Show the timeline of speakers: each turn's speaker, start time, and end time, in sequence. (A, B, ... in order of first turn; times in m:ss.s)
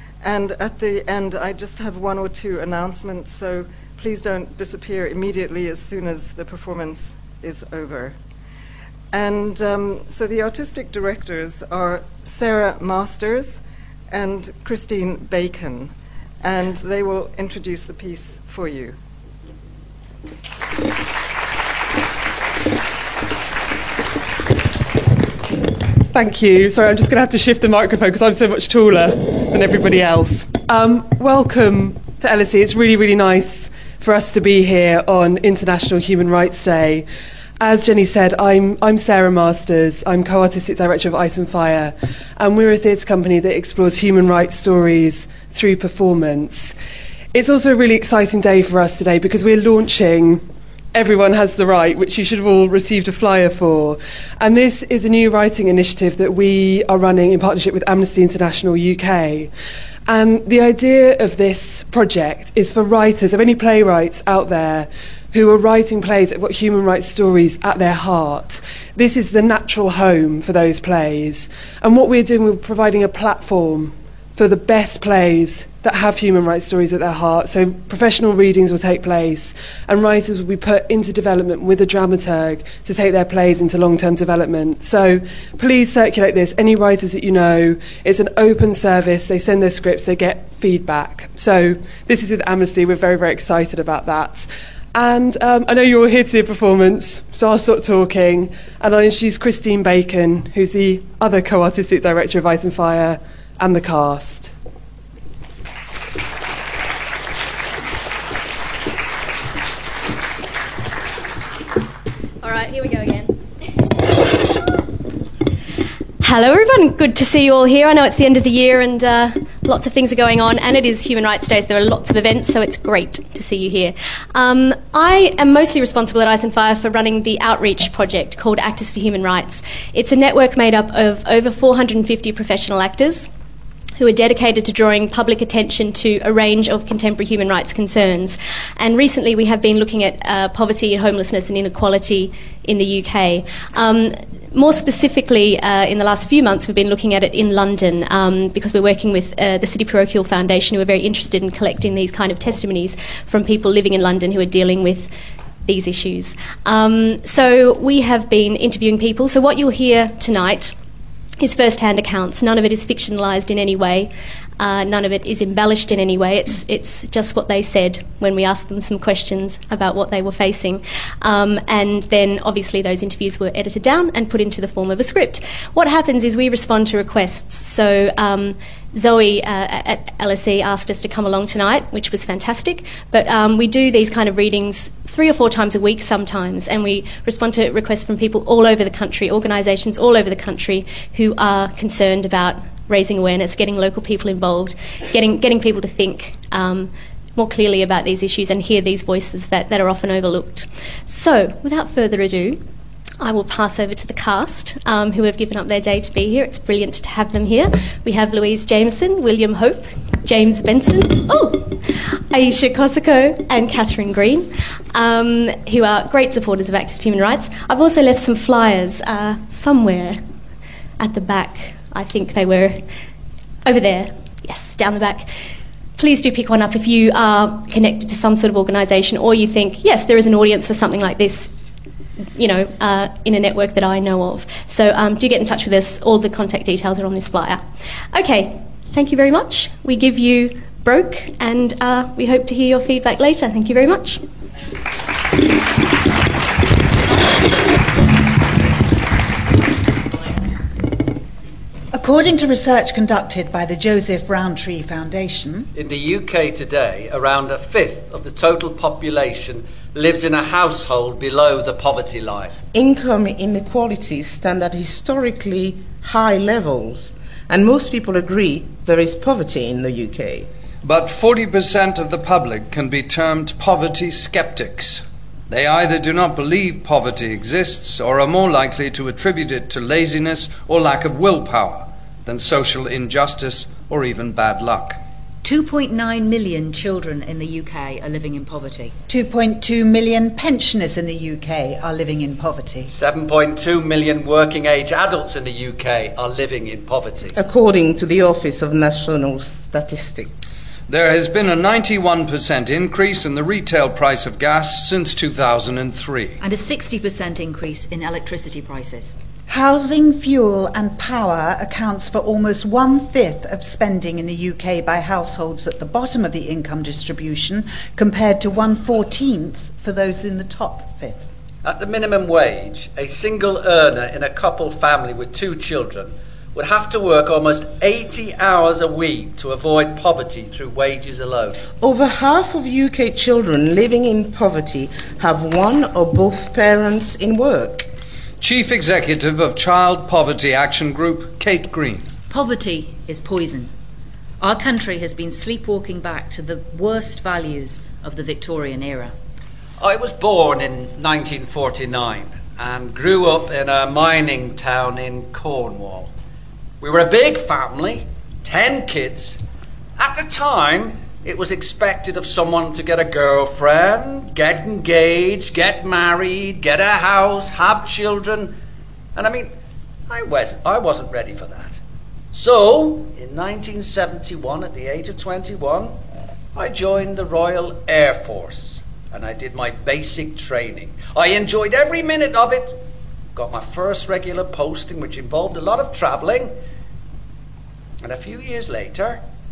0:00.2-0:08.2 A
0:09.1-0:19.0 A
0:26.1-0:37.1 B
0:37.6-0:46.8 B
0:47.3-0:59.5 B
1:00.1-1:44.5 B
1:52.4-1:53.4 C
1:56.2-2:13.3 C
2:14.0-2:35.1 C
2:35.6-2:40.8 C
2:41.4-3:22.6 C
3:23.2-3:40.2 C
3:41.0-3:42.8 C
3:43.7-3:45.3 C
3:46.0-3:51.5 C
3:52.4-4:04.2 C
4:11.9-4:15.7 D
4:15.8-4:22.6 E
4:22.7-4:30.5 F
4:30.8-4:45.0 G
4:45.4-4:49.0 H
4:49.1-4:52.9 D
4:52.9-4:57.4 E
4:57.4-5:00.8 F
5:00.9-5:06.4 G
5:06.4-5:09.2 H
5:09.5-5:21.3 D
5:21.6-5:31.6 E
5:31.8-5:37.9 F
5:38.4-5:42.1 G
5:42.3-5:43.7 H
5:44.4-5:49.2 H
5:49.8-5:56.1 E
5:56.8-5:59.4 E
6:00.0-6:08.6 E
6:09.2-6:09.5 E
6:10.1-6:11.8 E
6:12.3-6:16.0 E
6:16.5-6:22.8 E
6:23.4-6:26.6 E
6:28.0-6:29.2 E